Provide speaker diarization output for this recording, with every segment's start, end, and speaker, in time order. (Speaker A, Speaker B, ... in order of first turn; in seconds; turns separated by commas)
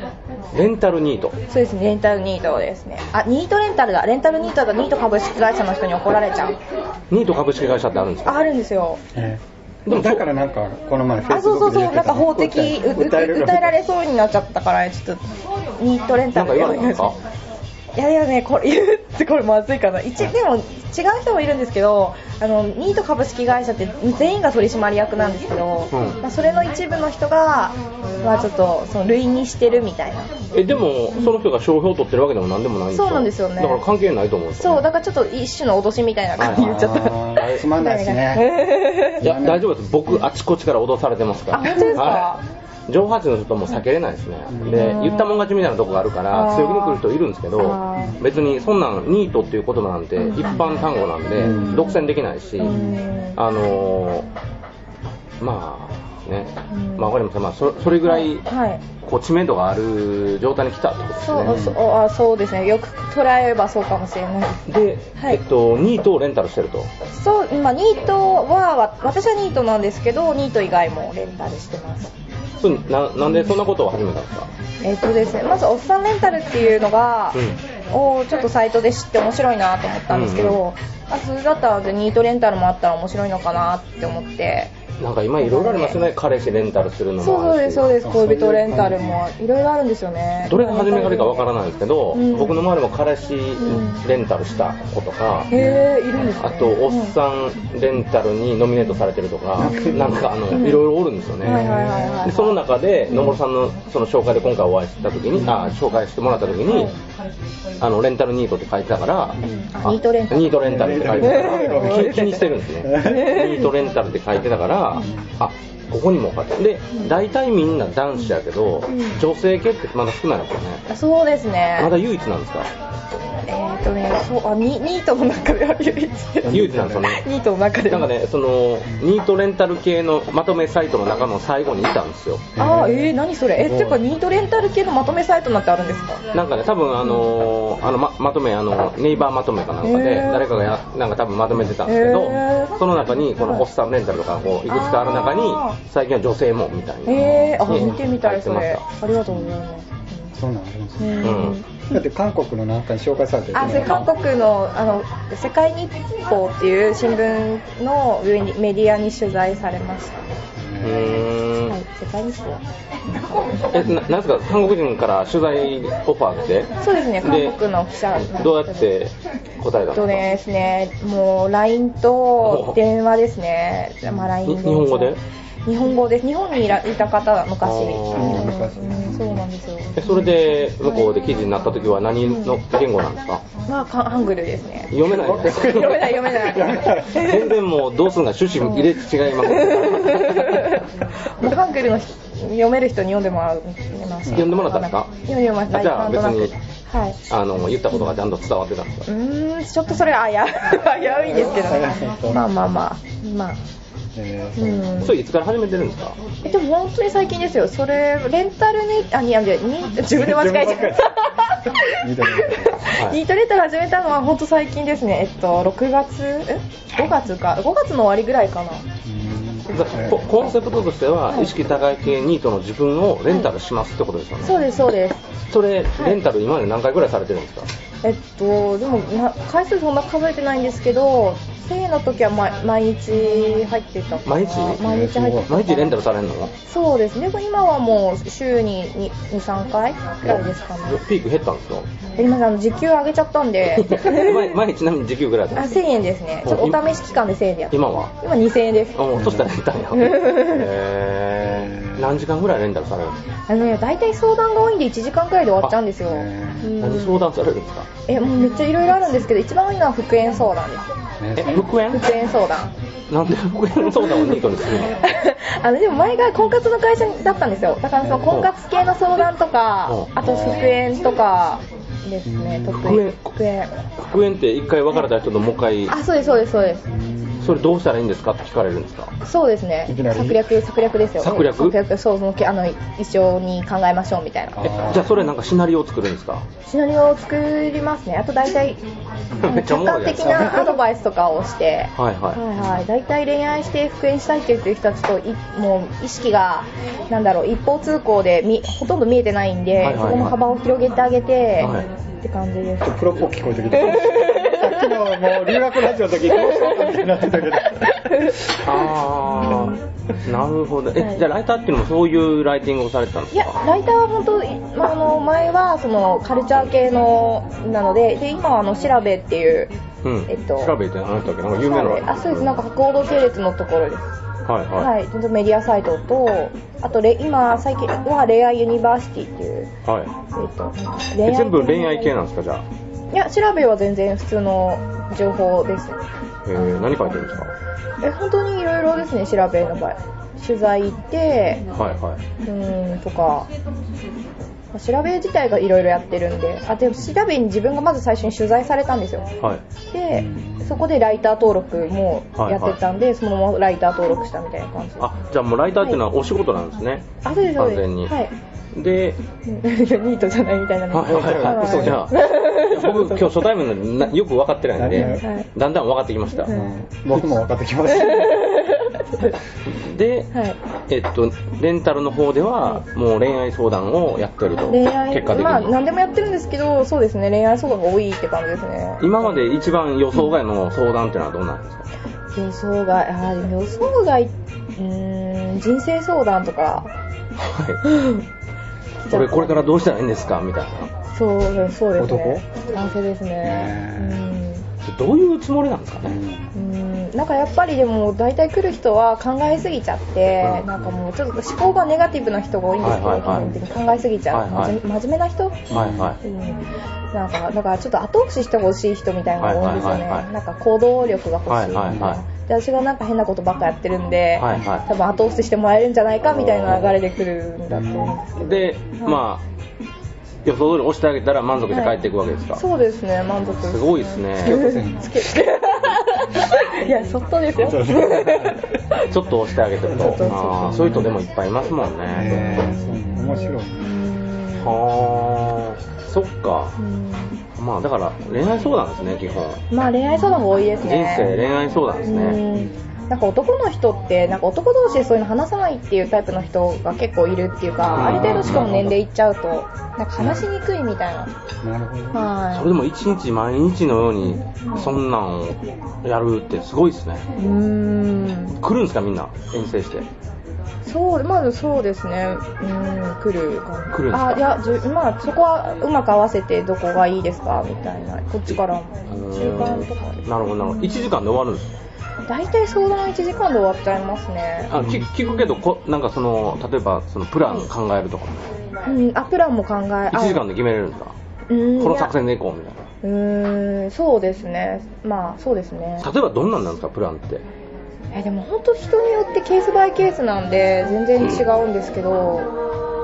Speaker A: 0.5-1.4, Speaker B: 1.5-6.6, Speaker A: 7.1-8.5, Speaker B: 8.2-9.0, Speaker C: 9.1-13.7, Speaker A: 9.8-10.2, Speaker B: 11.3-15.2, Speaker B: 15.8-17.1, Speaker A: 16.3-17.2, Speaker B: 17.9-30.3, Speaker A: 25.9-26.2, Speaker A: 30.5-34.8, Speaker B: 32.9-33.8, Speaker B: 34.6-39.2, Speaker A: 36.4-36.7, Speaker C: 36.4-38.5, Speaker A: 37.4-37.6, Speaker A: 39.2-42.3, Speaker C: 39.2-39.6, Speaker B: 41.5-42.4, Speaker A: 42.9-52.8, Speaker C: 44.5-45.0, Speaker B: 44.7-45.4, Speaker B: 46.3-47.0, Speaker B: 47.6-48.2, Speaker B: 50.2-50.8, Speaker C: 51.3-51.8, Speaker B: 51.5-52.0, Speaker B: 52.6-53.4, Speaker C: 52.6-53.0, Speaker A: 53.4-54.3, Speaker A: 55.4-58.4, Speaker B: 56.7-57.1, Speaker B: 58.0-58.8, Speaker A: 59.0-61.6, Speaker B: 61.2-65.4, Speaker C: 61.5-61.8, Speaker A: 64.7-66.9, Speaker B: 67.1-72.1, Speaker A: 72.6-74.5, Speaker B: 74.8-84.7, Speaker A: 80.1-80.6, Speaker A: 85.0-87.9, Speaker B: 85.4-86.0, Speaker B: 87.2-91.5, Speaker C: 88.0-89.2, Speaker A: 90.5-95.5, Speaker B: 92.1-92.6, Speaker B: 93.6-94.0, Speaker B: 95.5-97.1, Speaker C: 95.5-95.9, Speaker A: 96.4-106.9, Speaker C: 99.6-100.2, Speaker B: 99.6-100.8, Speaker C: 101.4-102.3, Speaker B: 101.4-103.4, Speaker B: 106.7-106.9, Speaker A: 107.8-120.8, Speaker C: 109.4-109.7, Speaker B: 109.4-113.7, Speaker C: 110.6-112.2, Speaker C: 112.8-113.5, Speaker C: 115.0-115.3, Speaker B: 118.9-119.2, Speaker B: 120.9-121.9, Speaker A: 121.8-122.7, Speaker B: 123.5-128.1, Speaker C: 126.4-127.1, Speaker A: 126.5-127.2, Speaker A: 127.9-132.5, Speaker C: 132.5-134.0, Speaker B: 132.6-136.2, Speaker A: 136.3-148.8, Speaker B: 139.8-140.6, Speaker B: 141.8-142.8, Speaker B: 144.7-145.8, Speaker B: 147.0-150.3, Speaker C: 147.2-147.9, Speaker C: 149.3-149.6, Speaker C: 150.3-151.3, Speaker B: 151.0-152.0, Speaker A: 151.2-151.6, Speaker C: 151.9-154.1, Speaker B: 153.5-160.2, Speaker C: 160.6-161.3, Speaker A: 160.8-161.8, Speaker B: 161.7-162.6, Speaker B: 163.1-163.7, Speaker A: 163.6-167.6, Speaker B: 166.8-168.9, Speaker A: 168.2-170.2, Speaker B: 169.9-181.1, Speaker A: 172.4-172.8, Speaker A: 174.4-175.2, Speaker A: 177.6-178.5, Speaker C: 178.1-179.5, Speaker A: 179.9-183.4, Speaker B: 182.2-182.6, Speaker B: 183.7-187.5, Speaker A: 184.9-186.3, Speaker C: 185.1-187.3, Speaker A: 187.0-190.8, Speaker B: 188.6-197.2, Speaker A: 194.3-195.1, Speaker A: 195.7-196.5, Speaker A: 197.3-199.1, Speaker B: 199.1-203.6, Speaker C: 201.2-202.4, Speaker C: 204.1-205.0, Speaker B: 204.6-205.1, Speaker A: 205.0-206.2, Speaker B: 206.4-218.8, Speaker C: 210.1-211.2, Speaker C: 211.8-212.8, Speaker A: 212.8-213.2, Speaker C: 219.0-220.2, Speaker A: 219.7-224.6, Speaker B: 224.4-225.2, Speaker A: 225.5-227.7, Speaker B: 228.0-235.9, Speaker A: 234.2-234.8, Speaker C: 234.8-235.5, Speaker A: 235.5-236.5, Speaker B: 236.6-241.0, Speaker A: 240.2-241.9, Speaker B: 242.2-244.5, Speaker A: 243.7-245.8, Speaker B: 245.5-249.1, Speaker A: 246.4-246.8, Speaker A: 247.7-248.1, Speaker A: 248.9-253.2, Speaker C: 249.1-249.5, Speaker B: 249.9-250.7, Speaker C: 251.5-252.2, Speaker B: 253.5-257.3, Speaker C: 256.1-256.7, Speaker A: 256.8-257.9, Speaker B: 258.1-260.9, Speaker C: 261.2-261.6, Speaker A: 261.4-262.1, Speaker B: 261.5-262.7, Speaker A: 263.1-265.0, Speaker B: 263.8-273.7, Speaker C: 268.0-268.3, Speaker C: 270.2-270.9, Speaker C: 272.2-273.0, Speaker A: 272.7-273.2, Speaker A: 274.0-275.9, Speaker B: 275.9-276.9, Speaker C: 276.9-277.6, Speaker A: 277.4-279.1, Speaker B: 279.2-284.9, Speaker C: 279.9-280.5, Speaker A: 281.2-281.7, Speaker C: 284.6-285.1, Speaker A: 284.6-286.4, Speaker B: 286.6-288.8, Speaker A: 289.4-290.6, Speaker B: 289.4-303.1, Speaker C: 290.2-290.8, Speaker A: 292.0-292.4, Speaker C: 292.6-292.8, Speaker A: 299.8-300.4, Speaker A: 301.6-301.9, Speaker C: 302.8-308.3, Speaker B: 303.7-305.5, Speaker B: 306.3-307.1, Speaker B: 307.6-308.6, Speaker A: 308.6-313.6, Speaker B: 309.4-309.8, Speaker B: 311.0-311.2, Speaker B: 313.3-319.7, Speaker A: 320.0-322.6, Speaker B: 320.3-320.7, Speaker B: 321.5-324.1, Speaker A: 324.4-324.9, Speaker B: 324.8-329.7, Speaker A: 329.8-330.1, Speaker B: 330.3-332.1, Speaker A: 331.2-332.6, Speaker B: 333.1-336.0, Speaker A: 336.4-337.5, Speaker B: 337.0-337.4, Speaker B: 338.0-341.6, Speaker A: 341.7-342.2, Speaker B: 342.4-343.5, Speaker B: 344.7-349.3, Speaker B: 349.9-355.1, Speaker C: 350.1-350.9, Speaker A: 352.4-352.8, Speaker A: 355.0-358.1, Speaker B: 357.2-358.3, Speaker A: 358.7-359.2, Speaker B: 359.4-363.2, Speaker A: 360.9-366.5, Speaker C: 361.1-362.1, Speaker C: 364.8-365.2, Speaker B: 365.0-365.5, Speaker C: 366.5-368.5, Speaker B: 367.9-369.3, Speaker A: 369.7-370.3, Speaker A: 370.9-375.7, Speaker B: 374.7-379.4, Speaker A: 379.0-381.8, Speaker B: 382.3-386.9, Speaker A: 387.4-387.8, Speaker B: 387.8-388.2, Speaker B: 389.0-389.7, Speaker A: 389.1-390.9, Speaker B: 391.1-394.6, Speaker C: 392.0-392.4, Speaker C: 393.4-394.2, Speaker A: 394.8-396.2, Speaker C: 396.0-396.5, Speaker B: 396.5-405.7, Speaker A: 402.8-403.5, Speaker C: 403.3-403.6, Speaker A: 404.3-404.8, Speaker C: 405.7-406.1, Speaker A: 405.7-406.2, Speaker B: 406.2-406.6, Speaker B: 407.1-419.2, Speaker A: 409.4-410.2, Speaker A: 411.5-412.2, Speaker C: 411.9-412.2, Speaker A: 414.4-414.8, Speaker A: 416.3-417.0, Speaker C: 417.7-418.2, Speaker A: 418.4-419.4, Speaker A: 420.4-422.6, Speaker B: 421.7-421.9, Speaker B: 422.6-429.1, Speaker A: 423.6-424.6, Speaker C: 424.4-425.2, Speaker C: 427.6-428.6, Speaker A: 429.0-432.5, Speaker C: 429.9-431.1, Speaker B: 429.9-431.1, Speaker C: 432.1-433.9, Speaker B: 432.2-434.8, Speaker A: 434.6-436.8, Speaker B: 436.8-437.4, Speaker A: 437.6-439.6, Speaker B: 439.7-441.3, Speaker A: 440.8-442.4, Speaker B: 442.0-451.3, Speaker A: 447.9-448.9, Speaker C: 447.9-449.0, Speaker C: 450.2-450.4, Speaker C: 451.6-452.2, Speaker B: 452.1-452.7, Speaker A: 452.5-457.2, Speaker B: 454.6-454.9, Speaker B: 457.4-458.6, Speaker A: 458.6-460.1, Speaker B: 460.8-471.1, Speaker A: 463.9-464.4, Speaker A: 469.1-471.7, Speaker B: 472.3-475.6, Speaker A: 474.7-478.5, Speaker B: 478.9-480.4, Speaker A: 480.1-481.1, Speaker B: 481.5-482.1, Speaker A: 481.8-482.8, Speaker B: 483.0-486.1, Speaker A: 486.0-487.4, Speaker B: 488.1-492.5